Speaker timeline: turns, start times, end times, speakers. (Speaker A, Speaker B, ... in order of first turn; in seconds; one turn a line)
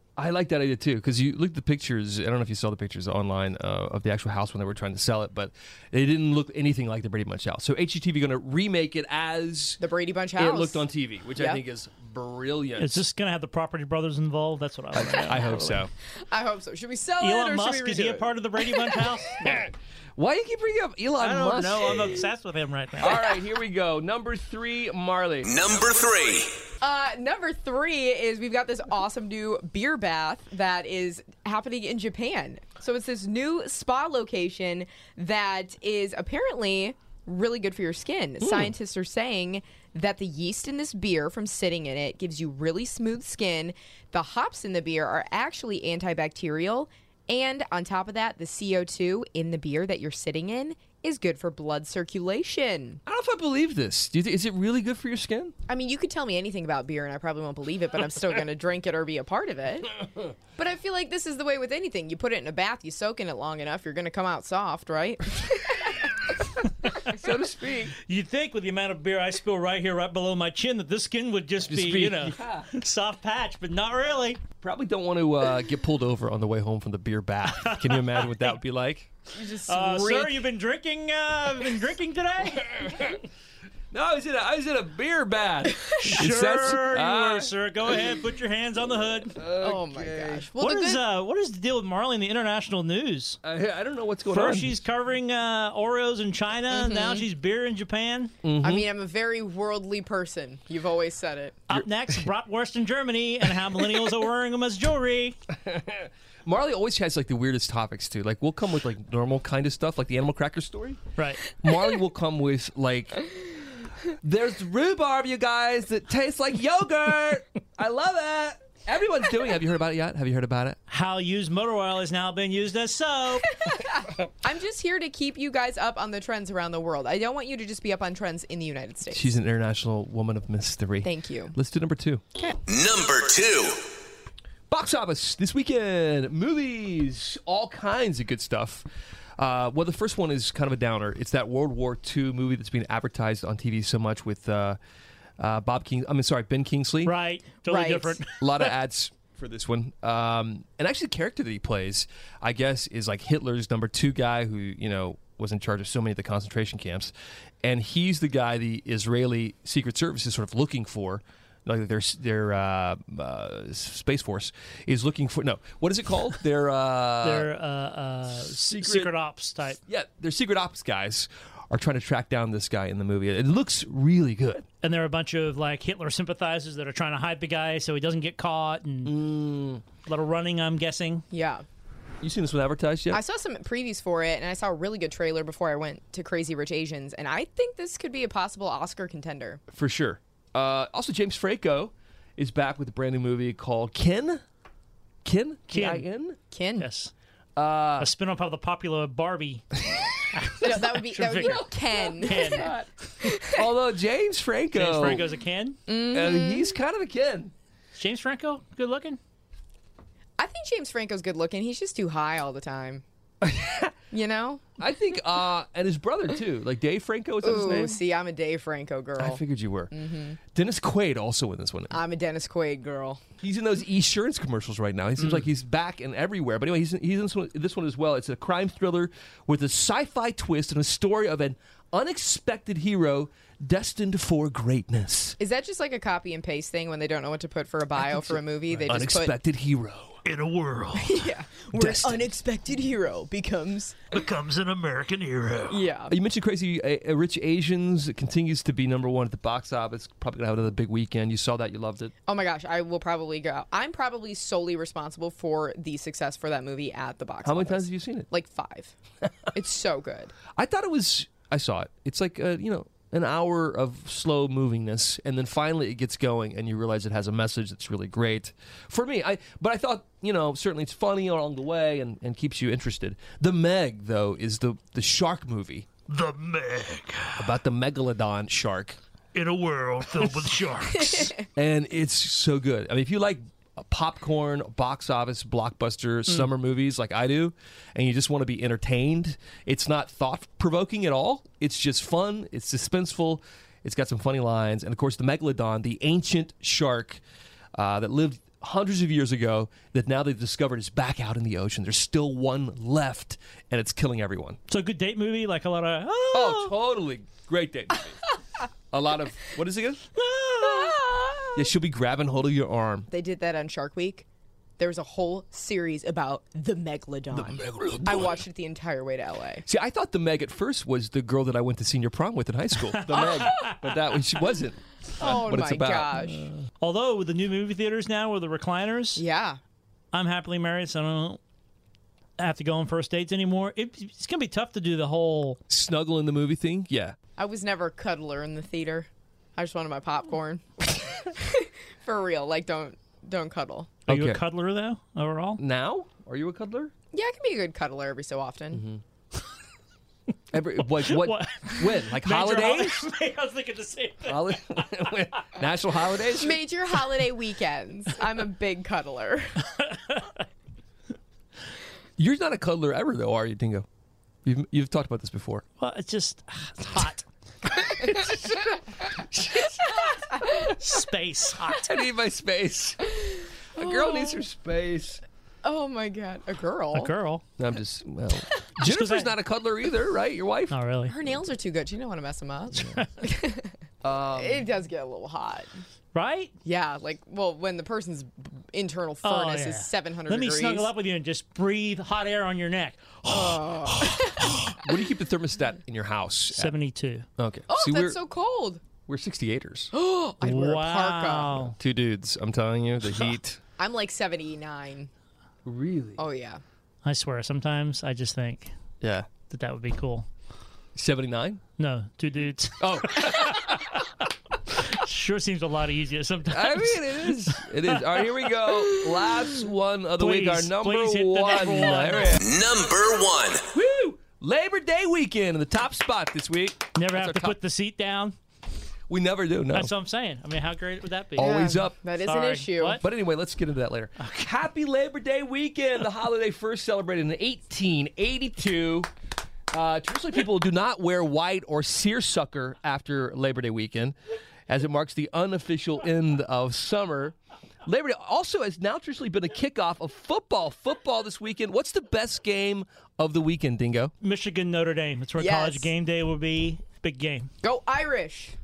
Speaker A: 0.2-9.8
Speaker B: 9.8-10.8
Speaker A: 10.4-13.0
Speaker B: 11.4-11.6
Speaker C: 12.8-15.9
Speaker A: 14.9-15.9
Speaker B: 16.3-19.0
Speaker C: 17.2-19.7
Speaker A: 19.4-22.2
Speaker C: 21.2-23.4
Speaker A: 23.0-25.6
Speaker D: 25.4-26.6
Speaker B: 26.8-53.0
Speaker A: 38.4-38.7
Speaker A: 53.1-55.5
Speaker B: 55.7-60.0
Speaker B: 60.5-66.3
Speaker A: 67.0-68.0
Speaker C: 68.0-74.4
Speaker A: 71.7-72.7
Speaker A: 74.6-79.1
Speaker C: 77.5-78.2
Speaker B: 79.3-80.4
Speaker C: 79.6-83.2
Speaker A: 82.8-83.1
Speaker A: 83.9-87.5
Speaker C: 85.9-89.4
Speaker A: 89.3-90.5
Speaker B: 89.6-91.0
Speaker C: 90.5-93.4
Speaker A: 93.4-94.8
Speaker C: 94.2-98.3
Speaker B: 96.7-97.3
Speaker A: 98.4-98.9
Speaker B: 98.6-101.6
Speaker C: 101.7-105.4
Speaker A: 105.5-111.0
Speaker C: 111.2-111.5
Speaker A: 111.5-113.3
Speaker A: 114.1-120.8
Speaker C: 120.9-123.5
Speaker B: 124.4-129.3
Speaker A: 129.1-132.2
Speaker B: 131.0-131.6
Speaker D: 132.7-133.9
Speaker A: 134.7-138.9
Speaker A: 139.4-144.8
Speaker A: 145.4-147.1
Speaker C: 147.0-148.7
Speaker B: 147.6-148.2
Speaker A: 148.4-157.1
Speaker A: 157.6-167.5
Speaker C: 167.2-169.8
Speaker A: 168.5-169.1
Speaker A: 169.9-174.7
Speaker C: 174.8-179.2
Speaker A: 179.0-179.8
Speaker C: 180.0-181.2
Speaker B: 181.3-181.6
Speaker A: 182.2-183.2
Speaker B: 183.1-189.6
Speaker A: 189.7-194.4
Speaker A: 195.2-196.4
Speaker C: 195.7-196.1
Speaker B: 196.5-196.9
Speaker C: 196.8-197.1
Speaker A: 197.6-198.1
Speaker C: 198.0-199.8
Speaker C: 200.3-202.7
Speaker B: 200.5-203.7
Speaker A: 201.4-202.8
Speaker A: 203.5-205.2
Speaker C: 204.7-205.8
Speaker B: 205.9-206.8
Speaker A: 206.1-207.5
Speaker C: 207.9-209.2
Speaker B: 210.4-213.0
Speaker A: 213.4-213.9
Speaker B: 214.1-214.7
Speaker A: 214.8-218.0
Speaker B: 217.4-220.4
Speaker A: 219.2-219.9
Speaker A: 220.5-222.0
Speaker B: 221.9-223.2
Speaker A: 223.4-235.4
Speaker B: 235.4-239.4
Speaker A: 238.9-240.2
Speaker C: 240.2-241.3
Speaker B: 240.9-244.0
Speaker A: 241.7-242.3
Speaker C: 244.1-245.8
Speaker B: 245.7-246.2
Speaker A: 246.1-252.1
Speaker B: 252.2-258.9
Speaker A: 257.4-258.3
Speaker B: 259.5-260.3
Speaker A: 260.5-275.9
Speaker C: 276.1-277.5
Speaker A: 277.4-279.0
Speaker C: 279.3-281.3
Speaker A: 281.5-297.2
Speaker A: 297.8-304.6
Speaker C: 304.7-306.8
Speaker A: 306.3-308.2
Speaker A: 308.9-310.1
Speaker C: 310.2-311.1
Speaker B: 310.6-311.6
Speaker A: 311.6-313.1
Speaker B: 313.1-314.2
Speaker B: 314.8-319.6
Speaker A: 317.3-318.4
Speaker A: 319.6-326.3
Speaker C: 322.9-323.8
Speaker B: 325.2-326.5
Speaker C: 326.8-329.2
Speaker B: 329.1-329.6
Speaker C: 330.1-331.4
Speaker C: 332.4-335.6
Speaker A: 335.7-337.1
Speaker B: 337.4-343.9
Speaker C: 344.1-345.6
Speaker A: 344.1-344.4
Speaker A: 345.6-346.9
Speaker B: 347.1-348.9
Speaker A: 348.7-349.0
Speaker A: 350.5-353.1
Speaker C: 350.9-354.6
Speaker A: 354.2-356.6
Speaker B: 356.4-359.6
Speaker C: 359.9-360.3
Speaker A: 362.2-363.9
Speaker A: 364.4-365.6
Speaker C: 365.8-367.2
Speaker A: 367.9-369.7
Speaker C: 370.4-372.0
Speaker A: 371.8-375.2
Speaker B: 373.8-374.5
Speaker B: 375.6-377.1
Speaker C: 376.9-377.4
Speaker A: 377.6-380.8
Speaker C: 378.8-379.3
Speaker C: 380.7-381.1
Speaker B: 381.1-383.8
Speaker C: 382.8-383.2
Speaker A: 384.0-384.7
Speaker B: 384.3-385.8
Speaker C: 386.1-386.5
Speaker B: 386.6-390.9
Speaker C: 389.2-393.9
Speaker B: 393.3-394.8
Speaker A: 394.0-396.8
Speaker C: 396.5-397.2
Speaker A: 397.4-398.2
Speaker B: 397.7-398.8
Speaker A: 399.1-399.9
Speaker B: 399.9-401.7
Speaker C: 400.4-401.8
Speaker A: 401.8-403.6
Speaker B: 403.8-405.1
Speaker A: 405.6-406.2
Speaker B: 406.2-406.6
Speaker C: 407.0-408.7
Speaker A: 409.0-409.3
Speaker C: 409.5-410.3
Speaker A: 410.9-411.6
Speaker C: 411.8-414.1
Speaker A: 412.8-414.0
Speaker C: 414.7-418.9
Speaker A: 416.5-422.5
Speaker C: 420.2-422.4
Speaker D: 422.4-423.6
Speaker A: 423.7-427.6
Speaker C: 426.9-428.4
Speaker A: 429.1-429.9
Speaker C: 429.7-431.7
Speaker A: 431.4-432.0
Speaker B: 431.4-433.0
Speaker C: 432.2-433.0
Speaker A: 433.0-439.1
Speaker C: 434.2-434.5
Speaker A: 439.7-444.1
Speaker A: 444.7-454.1
Speaker C: 454.2-457.5
Speaker B: 455.4-455.9
Speaker B: 457.6-458.6